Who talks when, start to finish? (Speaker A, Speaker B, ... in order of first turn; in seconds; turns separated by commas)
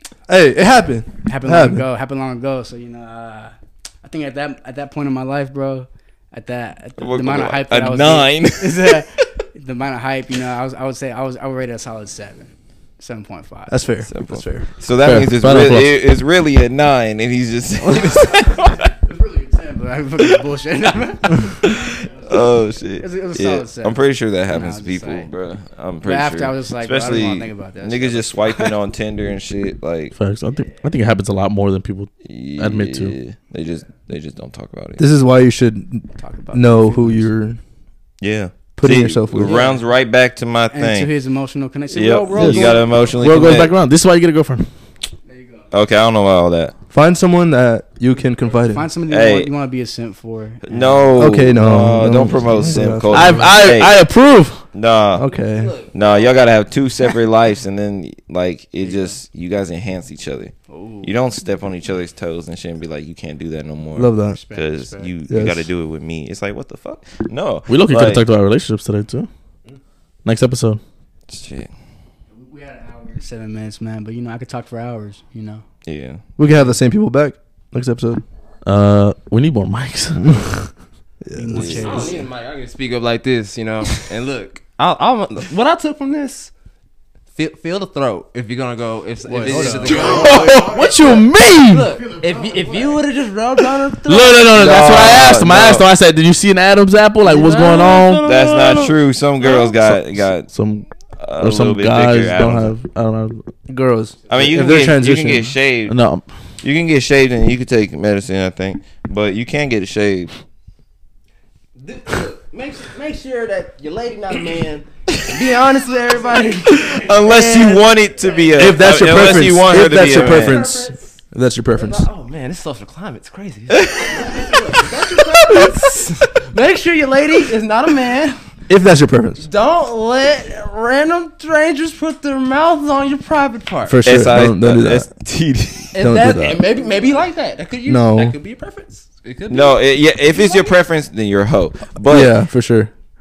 Speaker A: 0.3-1.8, Speaker B: 1.2-13.8, Speaker C: 7.0-9.1, Speaker A: 13.7-14.7, Speaker C: 14.0-18.9, Speaker D: 15.0-16.0, Speaker B: 18.0-25.3, Speaker C: 21.6-30.1, Speaker B: 26.0-28.8, Speaker D: 30.1-33.2, Speaker C: 32.2-35.0, Speaker A: 35.0-37.6, Speaker B: 36.1-37.3, Speaker C: 38.2-41.1, Speaker A: 38.8-39.6, Speaker B: 39.4-39.8, Speaker B: 40.7-43.5, Speaker C: 41.9-43.8, Speaker A: 42.4-42.8, Speaker D: 43.2-44.7, Speaker B: 45.2-45.7, Speaker C: 45.7-46.7, Speaker A: 46.9-48.9, Speaker B: 48.6-51.3, Speaker C: 49.1-49.5, Speaker C: 50.7-54.0, Speaker A: 51.2-53.5, Speaker D: 53.1-54.7, Speaker C: 54.7-55.3, Speaker A: 55.2-55.8, Speaker E: 55.3-56.5, Speaker C: 55.9-68.2, Speaker B: 58.8-59.2, Speaker B: 60.7-61.2, Speaker A: 64.0-64.4, Speaker B: 64.2-65.1, Speaker A: 65.3-65.7, Speaker D: 67.7-69.3, Speaker D: 70.2-70.8, Speaker C: 71.3-71.7, Speaker B: 72.3-75.6, Speaker C: 75.8-76.2, Speaker A: 76.4-78.2, Speaker D: 78.7-80.6, Speaker A: 80.2-80.5, Speaker A: 81.2-81.9, Speaker B: 81.3-82.2, Speaker C: 81.6-82.0, Speaker E: 81.7-86.5, Speaker E: 87.3-91.2, Speaker B: 89.3-90.9, Speaker D: 89.9-92.0, Speaker E: 91.7-94.8, Speaker B: 92.2-92.9, Speaker D: 94.1-98.4, Speaker C: 94.5-95.9, Speaker E: 97.3-98.7, Speaker C: 98.2-100.5, Speaker D: 99.5-100.9, Speaker C: 101.2-102.8, Speaker D: 101.4-103.7, Speaker A: 103.7-105.5, Speaker B: 104.3-104.5, Speaker C: 104.3-106.0, Speaker D: 105.9-106.3, Speaker C: 106.6-110.3, Speaker E: 111.8-118.8, Speaker C: 115.2-115.4, Speaker C: 116.7-120.8, Speaker A: 118.6-122.1, Speaker E: 119.7-121.2, Speaker E: 121.7-128.4, Speaker C: 123.8-124.6, Speaker C: 125.3-125.7, Speaker A: 128.7-129.5, Speaker E: 129.4-134.0, Speaker A: 133.9-135.1, Speaker C: 134.1-136.0, Speaker E: 135.9-140.7, Speaker A: 136.0-136.7, Speaker A: 137.8-138.4, Speaker C: 139.5-142.4, Speaker A: 142.1-142.9